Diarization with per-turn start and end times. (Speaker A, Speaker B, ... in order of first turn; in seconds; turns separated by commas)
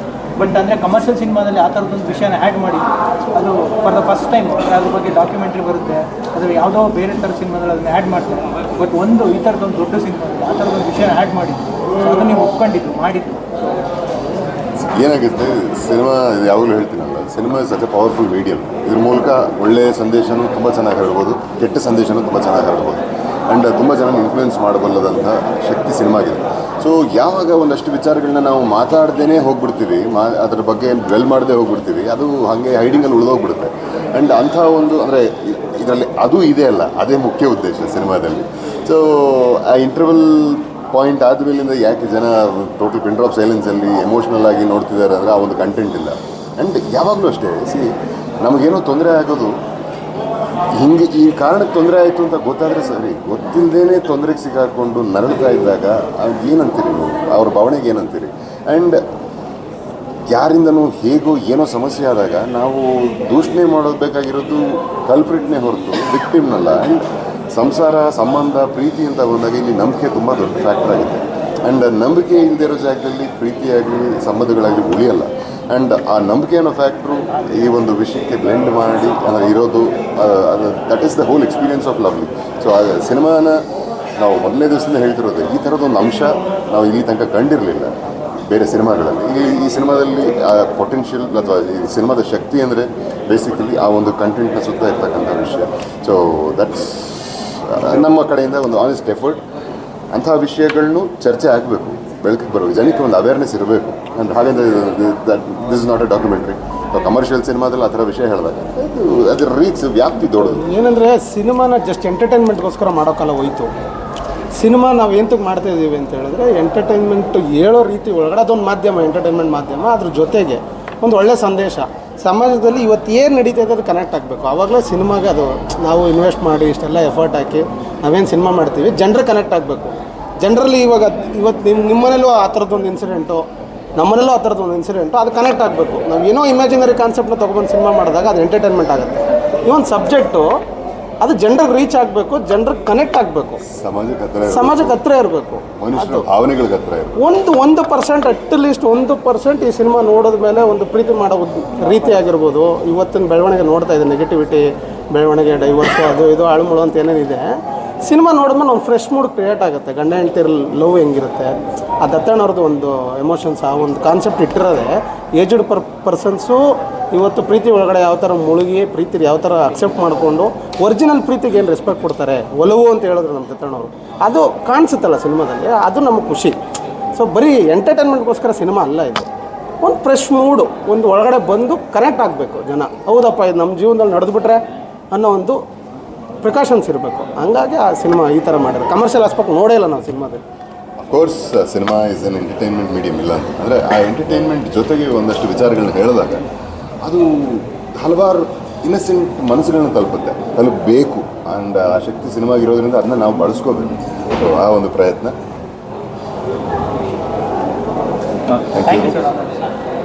Speaker A: 0.4-13.4, Speaker B: 14.9-49.5, Speaker B: 50.8-59.0, Speaker B: 60.3-83.6, Speaker B: 84.2-87.9, Speaker B: 88.5-99.4, Speaker B: 100.1-110.7, Speaker C: 110.5-113.7, Speaker C: 114.6-133.4, Speaker C: 133.9-140.5, Speaker C: 141.2-143.6, Speaker B: 143.7-145.0, Speaker C: 144.5-146.3, Speaker B: 145.8-147.2, Speaker C: 147.2-157.4, Speaker C: 158.0-176.6, Speaker C: 177.1-179.3, Speaker C: 179.8-185.6, Speaker C: 186.4-190.4, Speaker B: 191.0-196.4, Speaker B: 197.0-205.3, Speaker A: 208.5-209.6, Speaker B: 208.8-209.1